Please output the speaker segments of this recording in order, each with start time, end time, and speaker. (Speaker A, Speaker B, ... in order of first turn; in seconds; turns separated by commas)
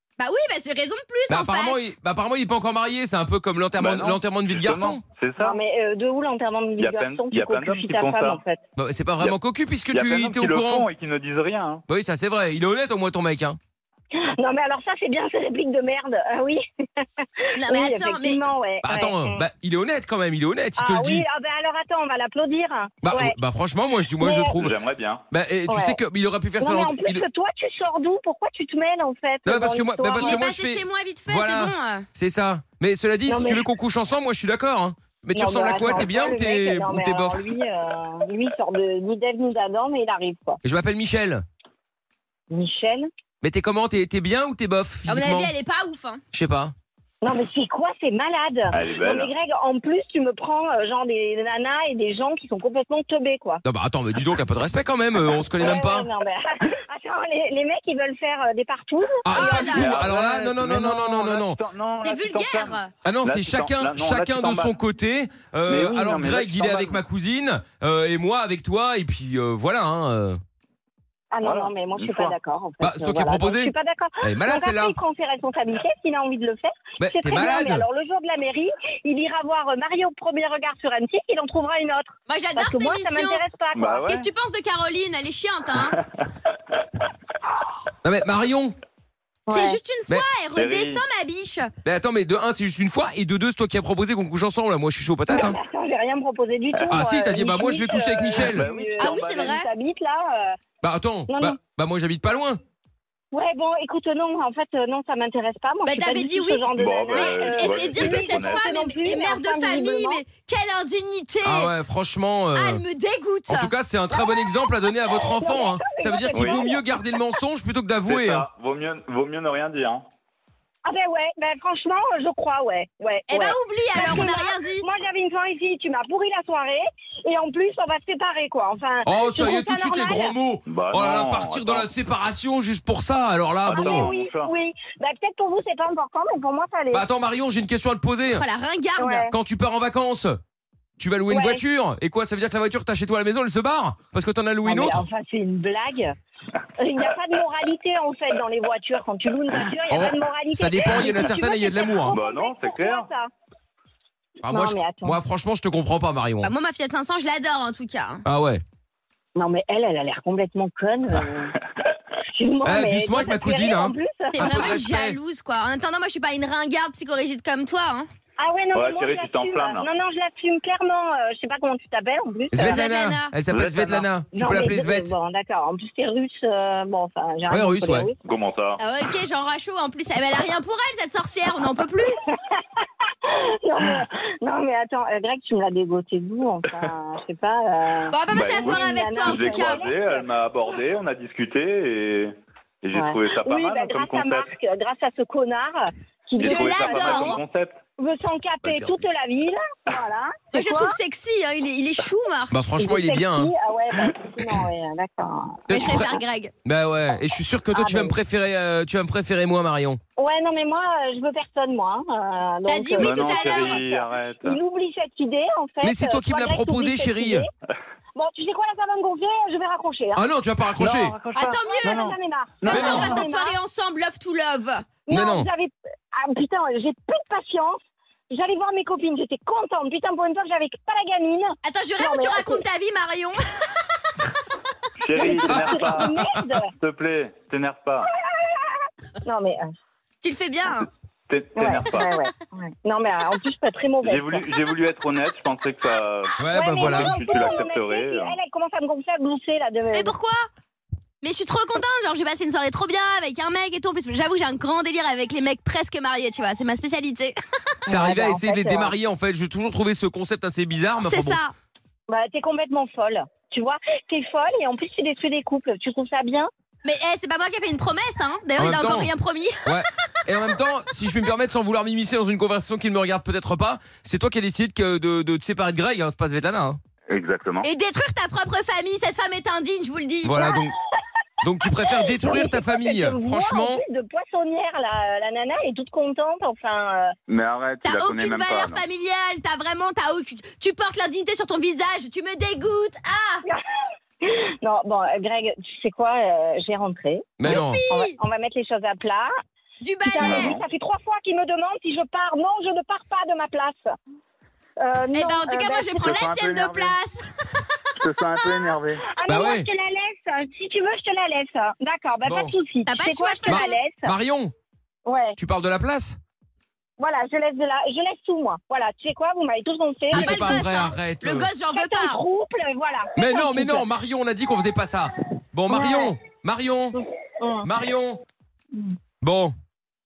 Speaker A: 0.2-1.8, Speaker B: 1.3-5.0, Speaker C: 3.8-5.6, Speaker D: 5.4-8.6, Speaker C: 6.8-8.4, Speaker B: 8.8-10.8, Speaker C: 9.9-11.8, Speaker B: 11.9-13.6, Speaker D: 14.1-19.4, Speaker A: 17.6-18.4, Speaker B: 18.8-21.2, Speaker D: 20.8-23.4, Speaker B: 23.0-24.7, Speaker D: 24.2-24.6, Speaker C: 24.6-25.2, Speaker B: 25.3-27.2, Speaker D: 25.7-26.0, Speaker D: 26.6-30.3, Speaker B: 29.4-37.4, Speaker A: 30.2-32.0, Speaker D: 33.2-33.6, Speaker D: 35.3-40.6, Speaker B: 40.6-41.4, Speaker D: 42.5-43.1, Speaker B: 43.4-45.5, Speaker A: 45.1-46.2, Speaker B: 46.3-46.7, Speaker D: 47.2-53.6, Speaker C: 48.7-49.3, Speaker B: 53.6-56.1, Speaker D: 55.2-60.5, Speaker B: 59.2-61.6, Speaker A: 59.3-59.9, Speaker C: 59.6-64.8, Speaker A: 62.0-62.9, Speaker B: 63.0-70.4, Speaker C: 65.7-67.0, Speaker D: 71.3-84.1, Speaker C: 71.4-72.3, Speaker B: 72.8-74.9, Speaker B: 77.0-77.8, Speaker A: 82.3-83.4, Speaker C: 83.7-84.2, Speaker A: 84.0-86.0, Speaker B: 88.0-88.8, Speaker D: 89.5-89.8, Speaker A: 89.5-91.7, Speaker C: 90.5-91.0, Speaker B: 91.8-95.6, Speaker D: 95.3-100.6, Speaker B: 96.9-98.7, Speaker C: 98.3-99.5, Speaker A: 99.0-99.7, Speaker B: 100.8-102.6, Speaker D: 101.3-101.6, Speaker D: 103.3-110.2, Speaker A: 105.8-111.7, Speaker C: 106.7-108.6, Speaker B: 111.4-112.8, Speaker A: 112.5-113.7, Speaker B: 113.5-118.5, Speaker D: 114.1-117.1, Speaker C: 116.3-116.7, Speaker C: 118.0-120.0, Speaker D: 120.8-130.4, Speaker A: 123.3-124.8, Speaker B: 129.0-134.1, Speaker C: 130.7-131.9, Speaker C: 133.7-134.5, Speaker D: 133.7-137.1, Speaker B: 136.9-138.4, Speaker A: 138.3-139.3, Speaker D: 139.0-139.3, Speaker B: 139.3-140.4, Speaker B: 141.0-145.0, Speaker D: 141.3-141.6, Speaker D: 144.6-146.2, Speaker D: 146.8-153.3, Speaker B: 149.9-152.2, Speaker C: 152.1-153.1, Speaker B: 154.4-156.5, Speaker D: 154.5-155.2, Speaker A: 156.4-158.2, Speaker B: 158.2-158.6, Speaker D: 159.3-161.6, Speaker D: 162.2-164.5, Speaker B: 162.6-165.2, Speaker A: 164.3-168.1, Speaker D: 168.4-172.8, Speaker C: 168.7-169.8, Speaker B: 172.5-175.1, Speaker A: 172.6-173.3, Speaker C: 173.5-174.1, Speaker D: 174.2-178.2, Speaker B: 177.5-178.1, Speaker C: 178.2-178.8, Speaker A: 178.8-182.2, Speaker D: 182.2-190.8, Speaker A: 188.1-189.8, Speaker C: 188.3-194.5, Speaker D: 192.9-197.4, Speaker C: 196.4-197.8, Speaker A: 196.4-197.4, Speaker D: 198.0-201.0, Speaker B: 198.6-198.9, Speaker A: 200.5-202.6, Speaker B: 202.5-203.5, Speaker D: 202.8-206.0, Speaker B: 205.7-210.0, Speaker A: 205.7-206.5, Speaker D: 207.7-208.2, Speaker D: 210.2-217.5, Speaker A: 212.7-213.8, Speaker C: 212.9-214.6, Speaker B: 215.8-217.4, Speaker D: 218.1-220.2, Speaker B: 220.2-221.1, Speaker C: 220.8-223.2, Speaker A: 221.3-222.0, Speaker D: 221.6-223.6, Speaker A: 222.6-224.9, Speaker B: 222.7-223.1, Speaker D: 225.0-232.7, Speaker B: 225.1-225.5, Speaker A: 231.6-233.4, Speaker C: 235.0-238.1, Speaker D: 235.1-236.7, Speaker B: 235.4-236.3, Speaker D: 238.0-239.7, Speaker A: 240.2-240.9, Speaker C: 240.7-242.1, Speaker D: 241.5-244.6, Speaker C: 244.0-248.3, Speaker B: 246.4-247.2, Speaker D: 246.5-250.1, Speaker A: 249.9-250.5, Speaker A: 251.2-257.4, Speaker D: 257.9-258.9, Speaker B: 257.9-261.4, Speaker A: 261.0-261.5, Speaker D: 262.1-266.5, Speaker A: 266.8-269.8, Speaker B: 268.6-269.1, Speaker B: 269.6-276.8, Speaker C: 277.1-277.7, Speaker A: 277.6-280.5, Speaker B: 280.2-280.7, Speaker D: 280.4-280.6, Speaker B: 281.4-283.8, Speaker D: 282.0-287.1, Speaker C: 287.3-288.8, Speaker A: 287.8-293.4, Speaker D: 294.2-299.3, Speaker B: 297.4-297.8, Speaker A: 297.4-298.1, Speaker A: 299.8-300.6, Speaker D: 300.0-303.9, Speaker C: 300.2-300.6, Speaker D: 304.8-306.1, Speaker A: 305.1-307.8, Speaker C: 306.0-307.0, Speaker C: 308.0-309.0, Speaker D: 309.0-314.1, Speaker B: 309.2-309.6, Speaker B: 312.2-312.5, Speaker A: 312.8-313.7, Speaker B: 313.4-314.5, Speaker D: 315.1-315.4, Speaker B: 315.4-316.2, Speaker D: 317.0-320.6, Speaker B: 320.1-321.5, Speaker A: 320.1-322.2, Speaker D: 321.7-323.8, Speaker B: 323.2-327.0, Speaker D: 325.7-326.1, Speaker D: 326.9-327.7, Speaker B: 327.6-328.2, Speaker D: 328.7-329.0, Speaker B: 329.2-329.5